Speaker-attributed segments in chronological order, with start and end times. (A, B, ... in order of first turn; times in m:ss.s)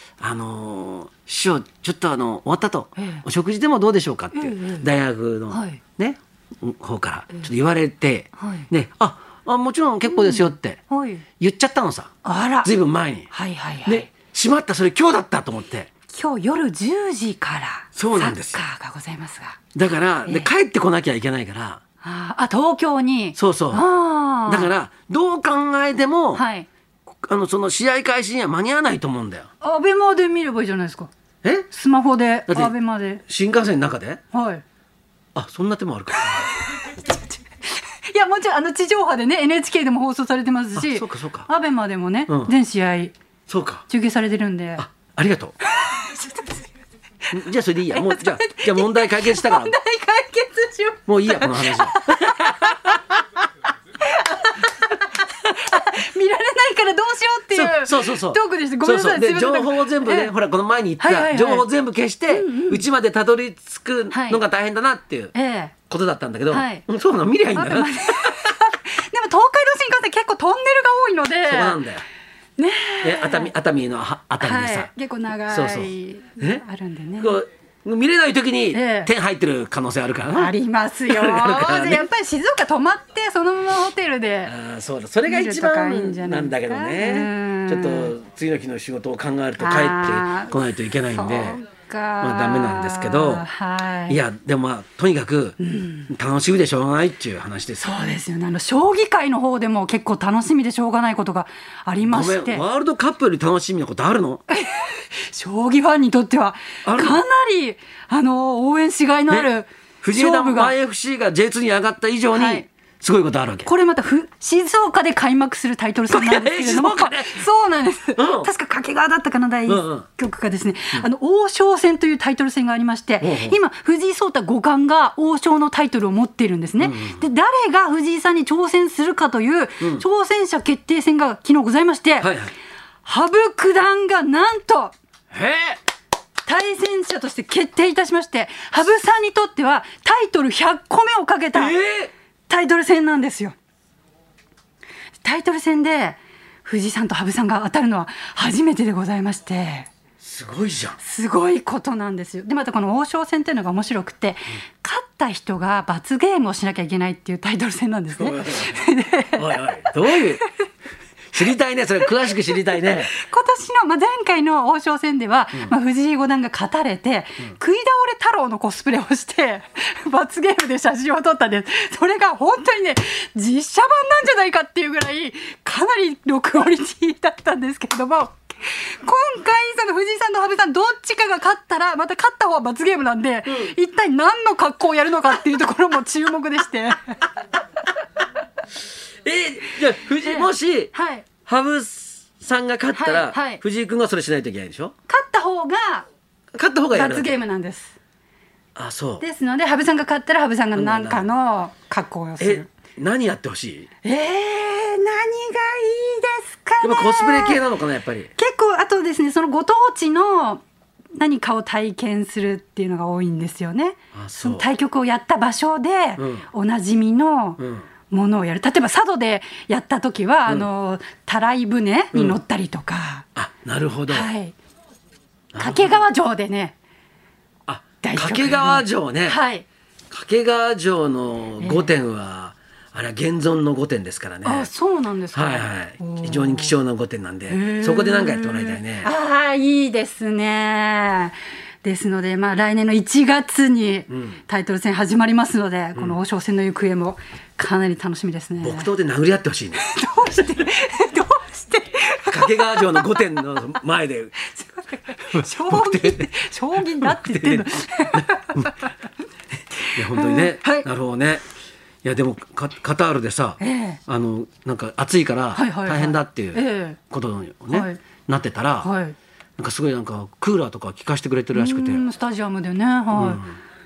0:00.2-0:10.8 A
0:03.0-0:03.2 B
0:04.3-0:04.9 B
0:05.5-0:05.8 B
0:08.4-0:08.7 B
0:10.1-0:11.2 B
0:11.4-0:13.3 A
0:12.2-0:12.7 B
0:13.3-0:14.1 B
0:13.8-0:15.9 A
0:16.1-0:19.6 B
0:17.9-0:18.6 A
0:19.7-0:21.8 A
0:22.0-0:24.7 B
0:23.4-0:23.8 A
0:24.4-0:26.4 A
0:26.3-0:26.7 B
0:27.2-0:29.5 A
0:29.6-0:31.1 B
0:31.4-0:31.7 A
0:31.7-0:33.2 B
0:32.5-0:32.7 A
0:33.2-0:34.2 A
0:34.3-0:34.6 B
0:35.3-0:36.5 A
0:37.7-0:43.1 B
0:40.7-0:41.5 A
0:43.5-0:43.8 A
0:43.9-0:44.8 B
0:44.8-0:45.6 A
0:45.6-0:46.6 B
0:47.3-0:49.7 A
0:47.9-0:52.9 B
0:51.1-0:53.1 A
0:54.0-1:00.3 B
0:57.5-1:05.3 A
1:01.0-1:01.7 B
1:02.3-1:02.8 B
1:04.1-1:04.4 B
1:05.3-1:05.7 B
1:05.9-1:08.4 A
1:06.5-1:06.8 B
1:07.5-1:11.8 B
1:11.4-1:12.0 A
1:12.6-1:13.5 B
1:13.0-1:14.9 A
1:14.4-1:17.4 B
1:15.5-1:16.6 A
1:17.2-1:20.5 A
1:18.7-1:19.1 B
1:20.3-1:24.5 B
1:21.1-1:22.0 A
1:24.4-1:31.6 A
1:25.2-1:28.1 B
1:29.6-1:30.6 B
1:31.1-1:34.2 B
1:32.2-1:33.4 A
1:34.1-1:38.2 A
1:35.6-1:36.1 B
1:37.8-1:42.6 B
1:42.0-1:44.4 A
1:44.5-1:50.7 B
1:46.8-1:47.2 A
1:50.0-1:53.7 A
1:52.3-1:52.6 B
1:53.6-2:12.3 B
1:56.1-1:57.4 A
1:58.2-1:58.5 A
1:59.7-2:00.1 A
2:03.2-2:03.6 A
2:06.8-2:07.2 A
2:12.2-2:12.5 A
2:13.0-2:14.9 B
2:15.3-2:15.8 A
2:16.4-2:21.7 B
2:21.5-2:22.1 A
2:22.5-2:23.5 B
2:25.2-2:29.9 B
2:30.2-2:31.0 A
2:31.0-2:40.5 B
2:38.2-2:38.8 A
2:39.4-2:40.4 A
2:41.3-2:43.1 A
2:42.9-3:07.3 B
3:03.5-3:03.7 A
3:09.2-3:10.9 A
3:10.2-3:11.3 B
3:11.4-3:14.9 A
3:12.9-3:13.6 B
3:15.1-3:16.0 B
3:16.5-3:17.4 A
3:16.9-3:17.9 B
3:18.8-3:19.2 A
3:19.2-3:22.7 B
3:20.7-3:21.3 A
3:22.4-3:23.9 A
3:24.0-3:27.6 B
3:26.8-3:28.3 A
3:28.4-3:30.6 B
3:31.1-3:43.2 B
3:34.1-3:34.7 A
3:36.2-3:36.5 A
3:37.6-3:37.9 A
3:42.1-3:42.4 A
3:43.3-3:44.3 A
3:44.1-3:44.5 B
3:45.5-3:46.0 A
3:45.6-3:46.7 B
3:47.7-3:49.4 A
3:48.0-3:49.6 B
3:50.1-3:54.7 A
3:51.6-3:51.9 B
3:54.4-3:56.7 B
3:55.3-3:59.1 A
3:57.5-4:08.9 B
4:04.1-4:04.4 A
4:08.6-4:09.8 A
4:09.8-4:13.3 B
4:12.2-4:14.4 A
4:14.4-4:18.9 B
4:15.2-4:18.8 A
4:19.9-4:21.4 A
4:19.9-4:20.9 B
4:22.0-4:28.9 A
4:23.6-4:24.0 B
4:25.5-4:27.0 B
4:27.7-4:28.0 B
4:28.8-4:29.2 B
4:29.6-4:32.0 A
4:31.5-4:33.4 B
4:33.1-4:33.5 A